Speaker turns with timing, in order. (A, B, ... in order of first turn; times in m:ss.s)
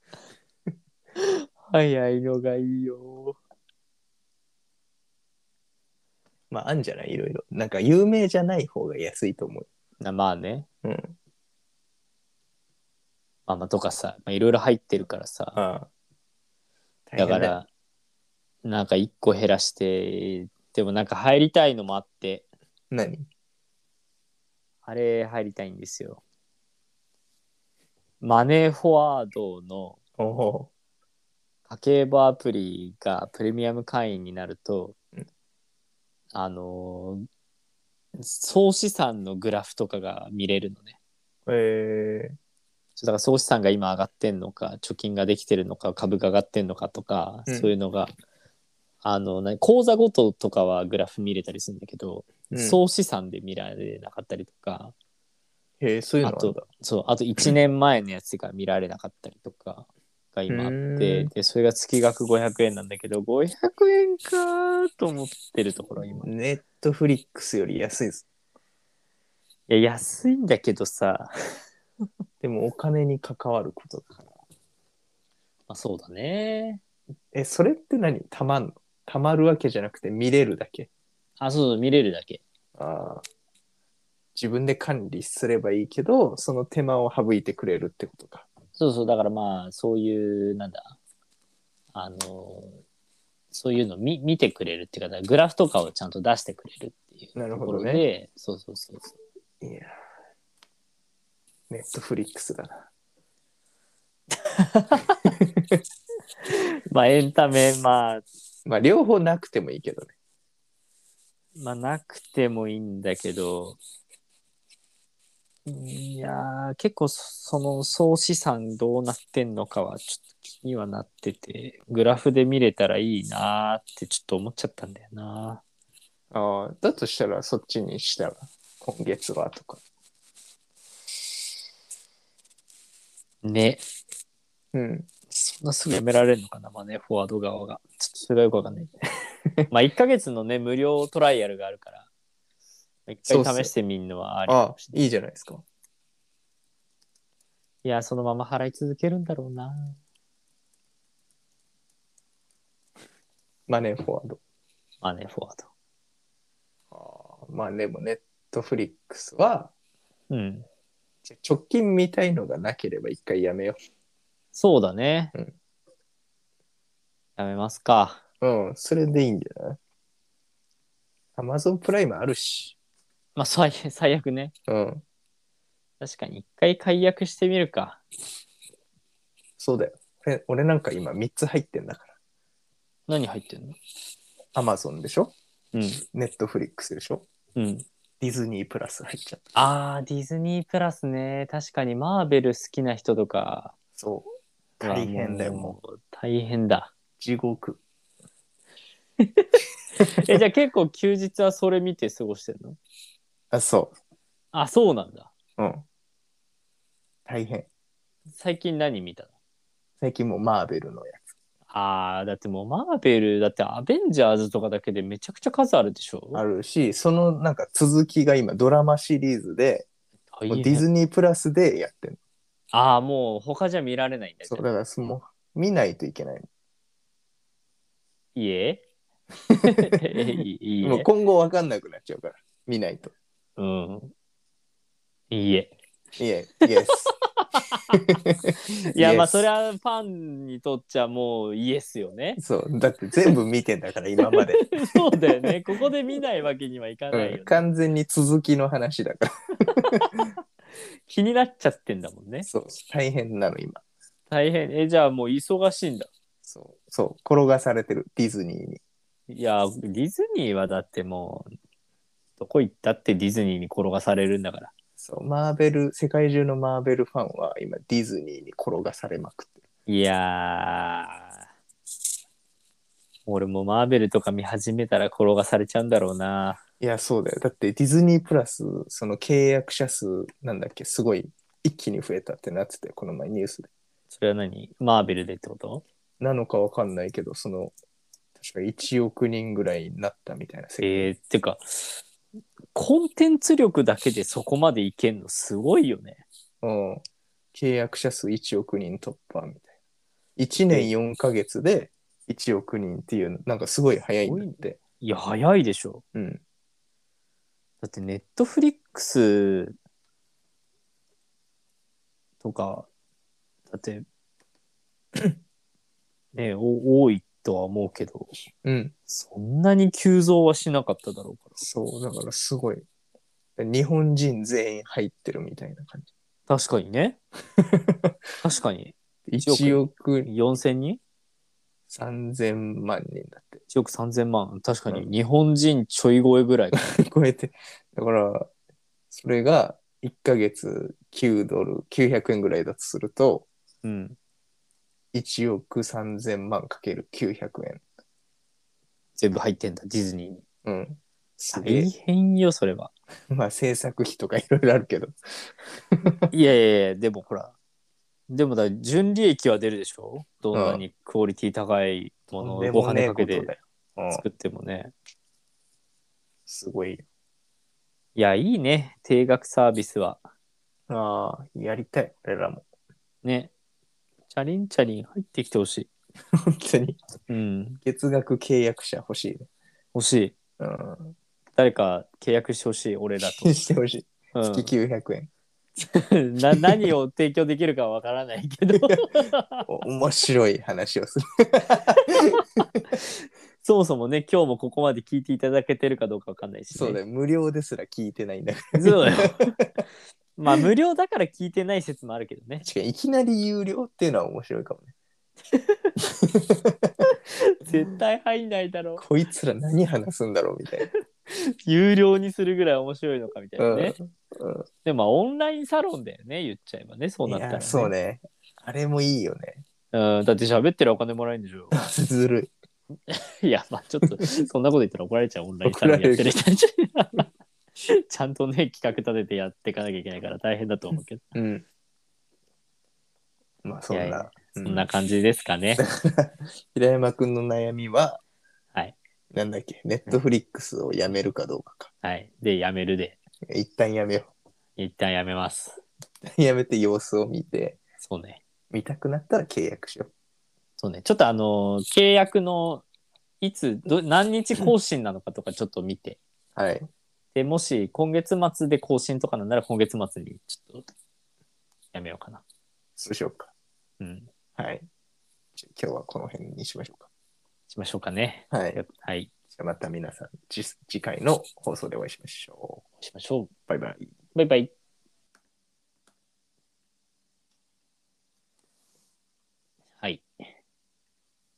0:01.2-0:03.4 A
0:06.5-0:09.7 B
0:10.0-0:10.7 A
0:10.8-0:11.2 B
0:13.5-0:15.6 A
0:15.6-0:15.9 B
0:17.1-0:17.6 B
0:17.2-0:17.7 A
0:18.6-0:22.5 A
0:22.9-0:23.3 B
0:24.8-0:26.2 A
0:28.2-0:30.0 A
0:30.2-0:30.7 B
0:31.7-0:35.0 A
0:36.3-0:37.2 A
0:38.2-0:41.0 A
0:41.5-0:42.4 B
0:43.0-0:48.1 A
0:47.5-0:47.7 B
0:49.0-0:54.9 A
0:52.5-0:52.8 B
0:55.8-0:56.6 B
0:56.2-1:06.3 A
1:00.5-1:01.3 B
1:06.2-1:08.2 B
1:09.7-1:11.3 A
1:12.4-1:14.3 B
1:15.7-1:16.8 A
1:17.3-1:20.9 B
1:21.4-1:22.4 A
1:22.8-1:23.2 B
1:24.4-1:28.5 B
1:28.8-1:31.0 A
1:31.9-1:32.8 A
1:33.5-1:39.1 A
1:37.4-1:38.0 B
1:39.6-1:40.0 B
1:41.7-1:42.9 B
1:44.4-1:45.3 A
1:45.4-1:45.8 B
1:46.4-1:48.2 A
1:48.7-1:50.1 B
1:51.6-1:53.8 A
1:55.7-2:05.6 A
2:06.3-2:09.8 B
2:13.4-2:13.8 A
2:14.7-2:15.1 B
2:15.3-2:18.9 A
2:19.7-2:22.1 A
2:23.1-2:24.9 A
2:23.3-2:23.7 B
2:24.5-2:25.6 B
2:27.8-2:30.0 A
2:33.7-2:34.4 B
2:35.0-2:35.7 A
2:36.9-2:39.7 B
2:40.3-2:40.7 A
2:41.2-2:43.8 B
2:44.5-2:45.3 A
2:47.4-2:48.2 A
2:48.4-2:49.8 B
2:51.4-2:52.8 B
2:53.4-2:54.5 A
2:54.7-2:55.0 B
2:56.0-2:58.0 A
2:59.6-3:02.1 B
3:03.1-3:03.8 A
3:04.6-3:05.4 B
3:05.7-3:06.0 A
3:06.1-3:07.3 B
3:07.6-3:07.8 A
3:08.2-3:09.4 B
3:09.6-3:13.7 A
3:14.0-3:14.3 B
3:14.8-3:15.8 B
3:14.8-3:16.9 A
3:17.2-3:17.8 B
3:20.0-3:20.4 B
3:20.1-3:22.8 A
3:23.5-3:24.0 B
3:24.5-3:25.3 A
3:25.6-3:25.8 B
3:27.3-3:27.7 B
3:28.4-3:29.3 A
3:30.0-3:31.3 B
3:31.7-3:36.4 A
3:36.3-3:39.9 B
3:40.3-3:40.9 A
3:40.5-3:42.2 B
3:42.7-3:44.6 A
3:44.5-3:46.5 B
3:48.4-3:48.8 A
3:49.5-3:49.8 B
3:49.6-3:51.1 A
3:50.8-3:53.1 B
3:53.6-3:54.1 A
3:55.3-3:55.7 A
3:56.2-3:57.1 B
3:56.9-3:57.9 A
3:57.9-3:58.3 B
3:58.9-4:02.4 A
3:59.0-3:59.5 B
4:02.4-4:05.5 B
4:04.3-4:07.6 A
4:07.1-4:10.3 B
4:09.9-4:12.5 A
4:12.5-4:13.8 B
4:14.3-4:16.1 A
4:16.5-4:18.8 B
4:19.3-4:21.5 A
4:22.4-4:24.7 A
4:25.0-4:29.6 B
4:29.9-4:31.3 A
4:33.3-4:36.6 A
4:36.8-4:43.7 B
4:44.1-4:45.8 A
4:46.2-4:47.7 B
4:48.4-4:51.1 B
4:50.8-4:52.0 A
4:52.7-4:56.2 A
4:56.6-4:57.0 B
4:57.5-4:59.7 B
5:00.4-5:04.8 B
5:04.2-5:06.0 A
5:06.2-5:06.4 B
5:07.8-5:09.8 A
5:12.4-5:12.9 A
5:13.7-5:14.0 A
5:16.4-5:18.3 A
5:18.6-5:18.9 B
5:19.1-5:21.6 A
5:21.6-5:22.8 B
5:23.6-5:26.1 B
5:26.5-5:27.2 A
5:27.6-5:28.1 B
5:28.4-5:28.9 A
5:29.3-5:30.3 B
5:29.5-5:31.0 A
5:31.9-5:33.6 B
5:33.7-5:36.8 A
5:36.8-5:38.5 B
5:39.1-5:43.5 B
5:43.8-5:44.2 A
5:45.1-5:47.8 B
5:49.2-5:50.4 A
5:50.6-5:51.9 B
5:51.5-5:52.9 A
5:53.3-5:56.3 B
5:56.3-5:57.6 A
5:58.3-6:03.5 A
6:00.5-6:00.8 B
6:02.4-6:04.2 B
6:04.1-6:04.9 A
6:06.5-6:07.0 B
6:08.2-6:10.2 A
6:10.9-6:12.6 B
6:13.2-6:13.5 A
6:14.3-6:15.9 A
6:16.5-6:17.0 B
6:17.3-6:17.8 A
6:17.8-6:19.5 B
6:19.9-6:20.3 A
6:20.6-6:21.1 B
6:21.6-6:23.6 A
6:23.4-6:25.3 B
6:24.4-6:24.7 A
6:25.8-6:29.7 A
6:28.8-6:29.1 B
6:29.6-6:32.7 B
6:33.6-6:37.0 A
6:36.7-6:39.5 B
6:38.8-6:39.6 A
6:40.4-6:42.6 A
6:42.6-6:44.9 B
6:45.5-6:45.9 A
6:46.0-6:46.9 B
6:47.0-6:49.0 A
6:49.0-6:50.9 B
6:50.8-6:54.0 A
6:53.6-6:54.6 B
6:54.8-6:57.9 A
6:57.2-6:59.6 B
6:59.9-7:01.7 A
7:01.7-7:02.5 B
7:03.1-7:07.3 A
7:05.6-7:06.3 B
7:07.8-7:11.2 A
7:11.3-7:11.6 B
7:13.6-7:14.9 B
7:13.9-7:15.8 A
7:15.8-7:18.2 B
7:19.3-7:21.9 B
7:22.0-7:23.2 A
7:23.5-7:24.3 B
7:24.8-7:25.8 A
7:26.3-7:27.8 B
7:28.0-7:28.4 A
7:28.7-7:30.1 B
7:30.8-7:32.8 A
7:33.4-7:36.2 A
7:36.6-7:36.9 B
7:37.4-7:40.8 A
7:41.9-7:42.4 A
7:43.0-7:43.5 B
7:44.0-7:44.3 A
7:44.6-7:44.9 B
7:45.6-7:47.1 B
7:47.7-7:49.3 A
7:48.5-7:48.8 B
7:49.5-7:52.8 B
7:53.0-7:53.5 A
7:53.7-7:54.1 B
7:54.3-7:54.7 A
8:00.0-8:00.3 A